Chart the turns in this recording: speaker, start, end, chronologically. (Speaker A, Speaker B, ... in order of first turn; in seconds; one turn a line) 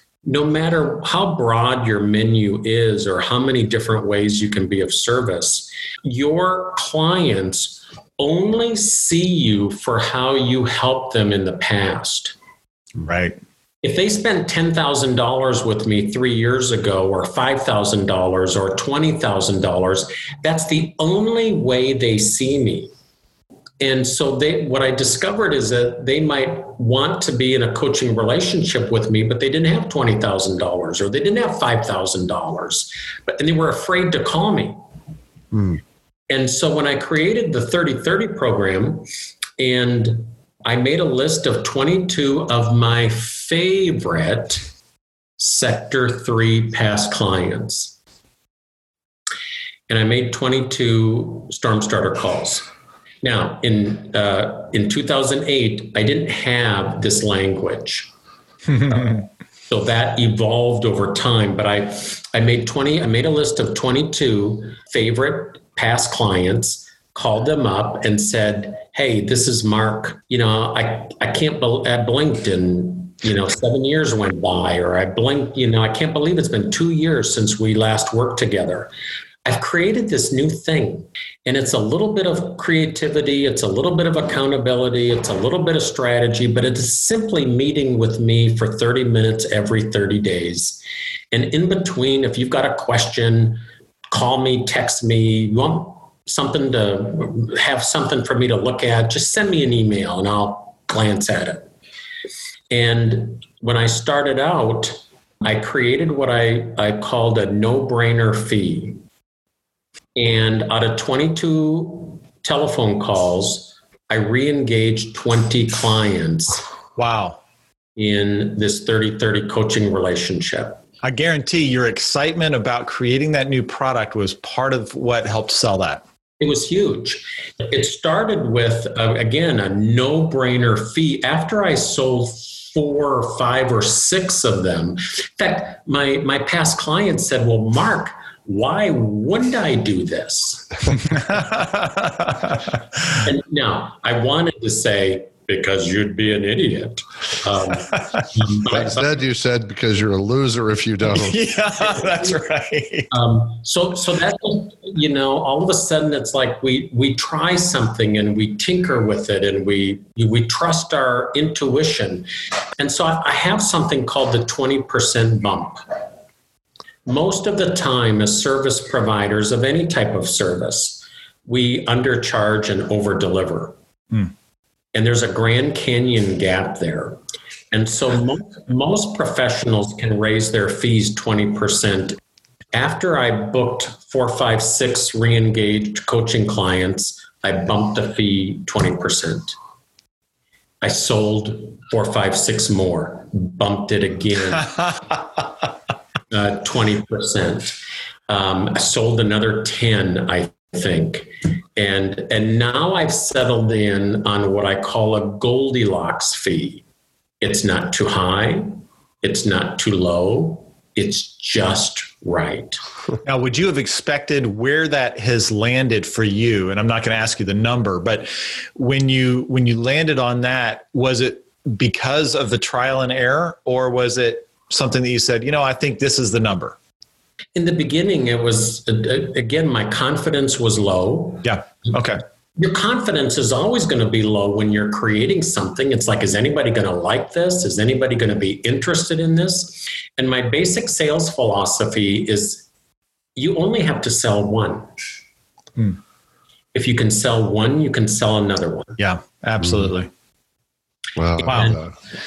Speaker A: 0.2-12.3
Speaker B: 13.0-13.4
Speaker A: 13.8-22.9
Speaker A: 23.8-34.8
Speaker C: 35.5-35.8
Speaker A: 36.3-39.0
Speaker A: 39.6-44.6
Speaker A: 45.4-47.9
Speaker A: 49.9-52.6
Speaker A: 53.2-58.1
Speaker B: 58.7-59.2
Speaker A: 58.9-78.9
Speaker A: 79.4-90.8
Speaker A: 91.3-101.7
Speaker A: 102.7-109.0
Speaker A: 110.2-116.6
Speaker B: 117.0-117.4
Speaker A: 118.0-120.8
Speaker B: 121.0-126.0
Speaker A: 126.4-140.9
Speaker B: 141.0-142.7
Speaker A: 143.2-149.1
Speaker C: 148.7-151.4
Speaker B: 151.1-153.1
Speaker A: 152.0-152.3
Speaker A: 153.1-162.3
Speaker A: 162.8-165.8
Speaker A: 167.1-173.7
Speaker A: 174.9-177.2
Speaker A: 177.7-182.2
Speaker A: 182.7-189.5
Speaker A: 190.8-194.8
Speaker A: 196.3-206.8
Speaker A: 207.4-212.8
Speaker B: 213.2-226.8
Speaker A: 227.5-231.5
Speaker B: 231.4-232.2
Speaker A: 232.6-242.7
Speaker A: 243.3-244.9
Speaker A: 246.7-248.9
Speaker B: 249.0-250.1
Speaker C: 249.6-249.9
Speaker C: 251.2-251.9
Speaker A: 251.4-251.8
Speaker B: 251.4-251.8